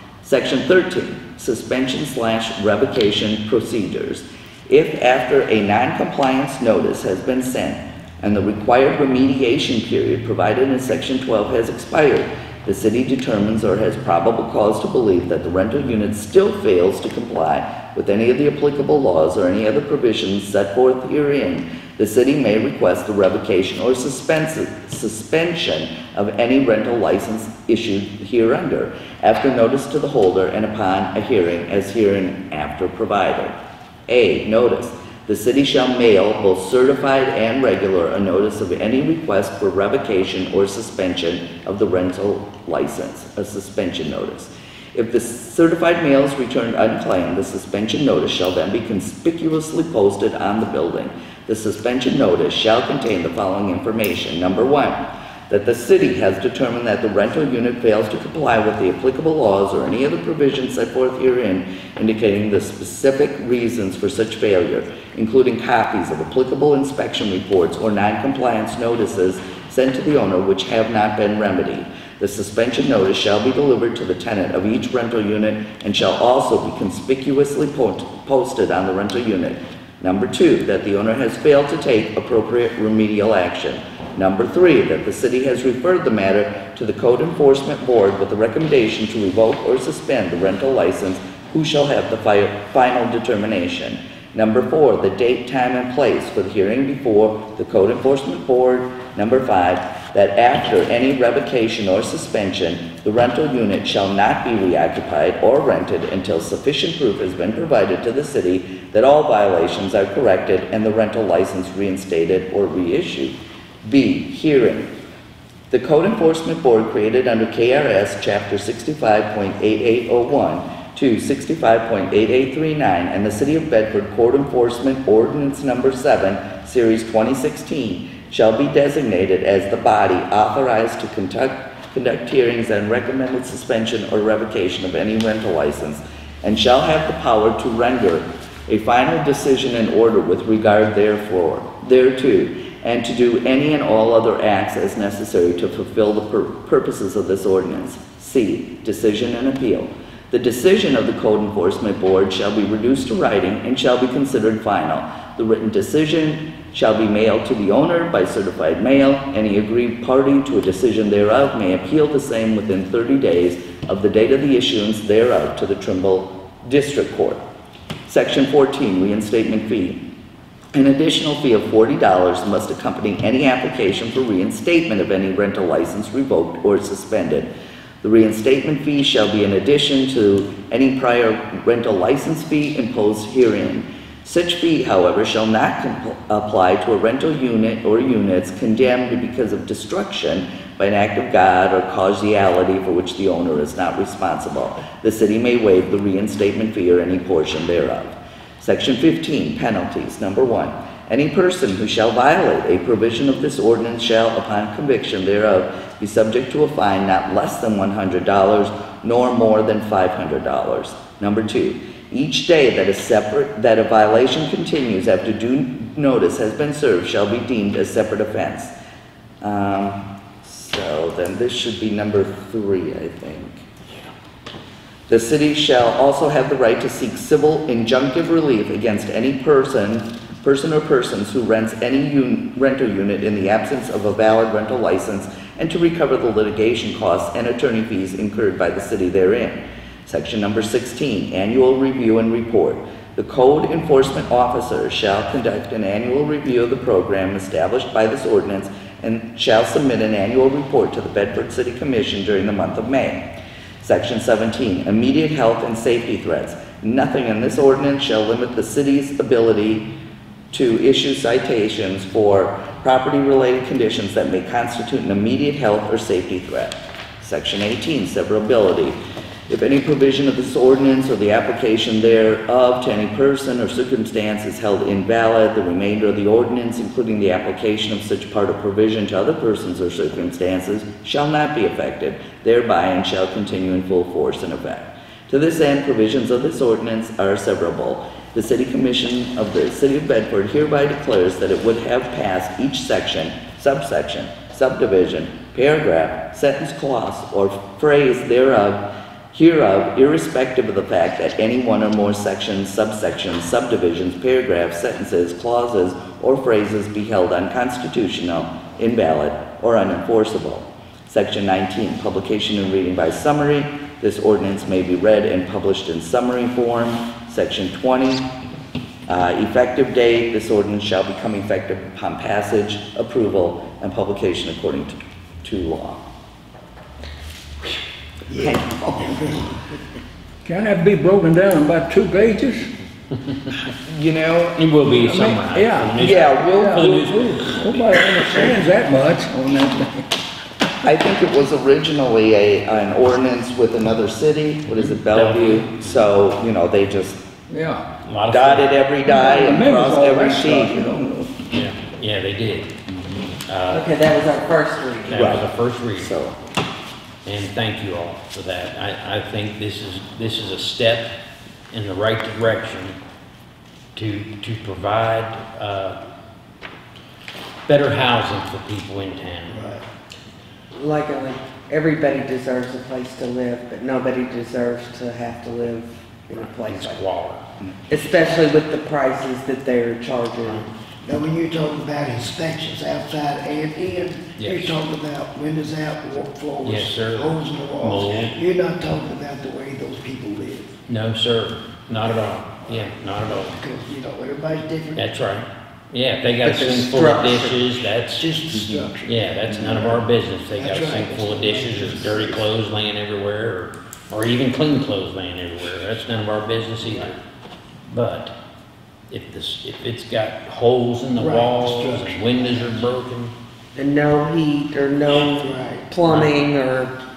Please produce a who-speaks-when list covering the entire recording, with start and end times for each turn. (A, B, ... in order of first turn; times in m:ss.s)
0:00.2-0:33.6 A
0:34.1-1:54.9 A
1:55.7-2:47.4 A
2:48.1-2:50.0 A
2:50.7-2:57.5 A
2:58.0-3:38.7 A
3:39.4-3:43.7 A
3:45.1-4:13.3 A
4:13.8-4:19.9 A
4:20.5-4:29.0 A
4:29.5-5:18.3 A
5:19.1-5:26.0 A
5:28.3-5:29.8 B
5:30.4-5:32.7 C
5:33.9-5:34.6 A
5:34.6-5:38.2 D
5:35.0-5:40.1 C
5:36.0-5:37.1 A
5:40.8-5:47.2 A
5:45.1-5:46.0 D
5:47.5-5:47.9 C
5:48.0-5:48.8 D
5:48.3-5:51.3 A
5:49.1-5:51.1 C
5:51.5-5:52.8 D
5:52.9-5:53.3 A
5:53.5-5:53.9 D
5:53.7-5:55.4 E
5:55.1-5:56.1 D
5:55.1-5:56.4 A
5:57.3-6:01.1 D
6:01.7-6:03.0 D
6:04.0-6:06.0 D
6:07.7-6:09.6 D
6:09.5-6:09.8 B
6:10.7-6:17.0 E
6:16.3-6:17.4 D
6:17.9-6:20.7 E
6:21.0-6:30.8 B
6:24.4-6:24.7 D
6:26.6-6:28.4 D
6:30.9-6:33.6 D
6:32.6-6:35.1 B
6:35.0-6:38.3 D
6:36.4-6:37.6 E
6:38.2-6:40.0 B
6:38.5-6:38.9 A
6:39.0-6:47.2 D
6:40.6-6:42.5 B
6:47.9-6:48.3 D
6:49.1-6:53.3 D
6:51.1-6:52.8 B
6:53.8-6:56.9 E
6:55.2-6:55.9 B
6:56.0-6:56.3 D